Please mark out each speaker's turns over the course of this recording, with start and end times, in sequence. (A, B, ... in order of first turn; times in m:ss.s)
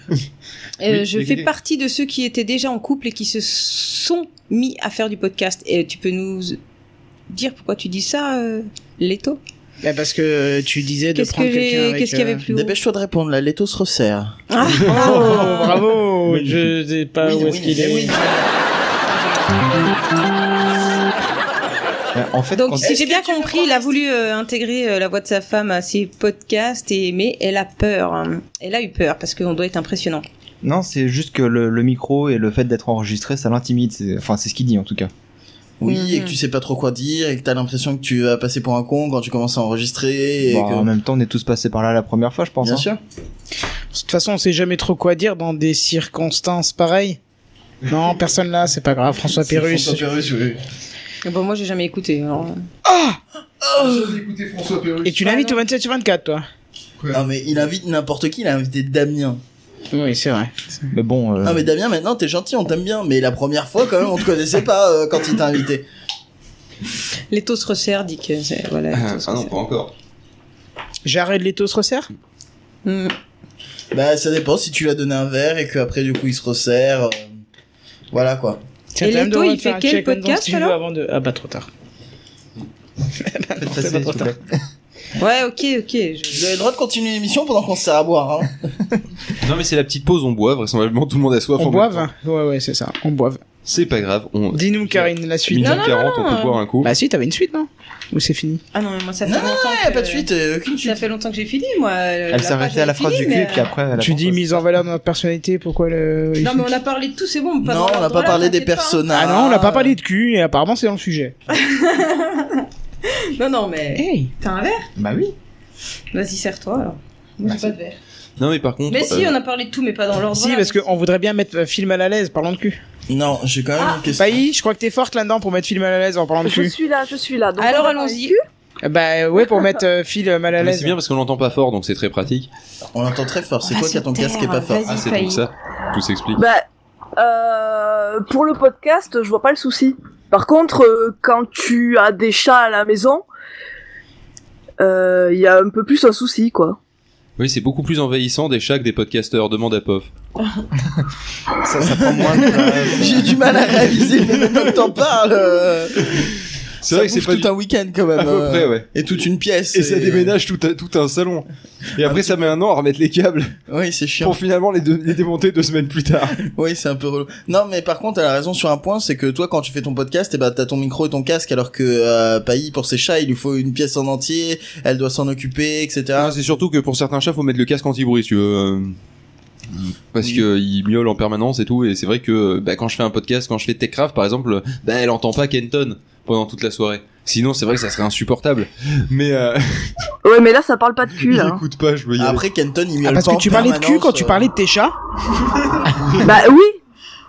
0:00.8-0:06.6 A
0:00.9-0:01.5 B
0:07.3-0:09.4 A
0:09.8-0:12.4 C
0:11.1-0:12.7 A
0:12.5-0:14.4 D
0:14.5-0:15.8 A
0:14.8-0:15.5 B
0:14.8-0:18.2 C
0:16.3-0:16.7 B
0:17.2-0:18.5 D
0:22.1-0:22.9 E
0:22.5-0:30.2 A
0:22.8-0:23.9 D
0:30.6-0:35.1 E
0:35.8-0:40.9 D
0:35.9-0:36.4 A
0:40.4-0:42.8 E
0:42.6-0:43.0 D
0:43.9-0:47.2 C
0:47.9-0:50.0 C
0:49.3-0:50.6 D
0:51.2-0:52.6 A
0:52.8-0:53.2 C
0:53.8-0:54.1 D
0:54.4-0:55.0 B
0:55.0-0:56.4 C
0:55.2-0:55.6 A
0:57.1-0:59.4 D
0:59.9-1:00.9 C
1:00.9-1:01.7 E
1:01.4-1:05.8 D
1:07.3-1:09.5 A
1:08.9-1:09.9 B
1:11.0-1:12.1 C
1:12.8-1:13.1 A
1:13.9-1:17.3 D
1:18.1-1:18.6 D
1:18.9-1:21.7 C
1:19.0-1:20.8 A
1:23.2-1:24.3 C
1:23.7-1:24.4 E
1:25.2-1:26.5 A
1:26.3-1:28.6 D
1:29.4-1:32.1 B
1:31.6-1:33.4 C
1:33.6-1:36.9 B
1:34.5-1:35.9 C
1:35.6-1:36.6 A
1:36.8-1:38.6 C
1:38.7-1:40.3 A
1:39.2-1:41.0 D
1:40.8-1:43.7 A
1:42.3-1:44.6 E
1:44.0-1:46.7 C
1:46.4-1:49.0 A
1:47.6-1:49.9 D
1:49.1-1:51.4 C
1:51.5-1:54.9 A
1:54.0-1:54.3 C
1:55.0-1:55.3 E
1:56.1-1:58.0 A
1:57.4-1:57.7 E
1:58.4-1:59.3 B
1:58.9-2:00.8 A
2:00.3-2:02.8 C
2:03.1-2:04.4 D
2:03.8-2:04.0 A
2:04.2-2:06.7 C
2:06.4-2:08.4 F
2:07.6-2:08.4 A
2:08.8-2:11.0 C
2:10.6-2:12.5 B
2:12.9-2:14.8 D
2:13.6-2:15.4 A
2:14.9-2:16.4 B
2:16.4-2:16.6 F
2:17.2-2:23.2 F
2:24.8-2:26.8 F
2:27.4-2:30.1 B
2:31.6-2:33.5 E
2:31.8-2:36.3 D
2:34.4-2:34.8 B
2:36.8-2:37.5 B
2:36.9-2:40.4 D
2:38.1-2:38.9 B
2:39.7-2:43.5 B
2:42.0-2:42.5 D
2:43.7-2:44.4 D
2:44.2-2:46.4 B
2:46.5-2:56.4 D
2:56.2-2:58.9 B
2:59.7-3:10.0 B
3:00.2-3:00.4 D
3:10.2-3:11.6 F
3:11.2-3:12.4 B
3:12.2-3:14.5 D
3:13.0-3:14.9 C
3:16.2-3:16.7 F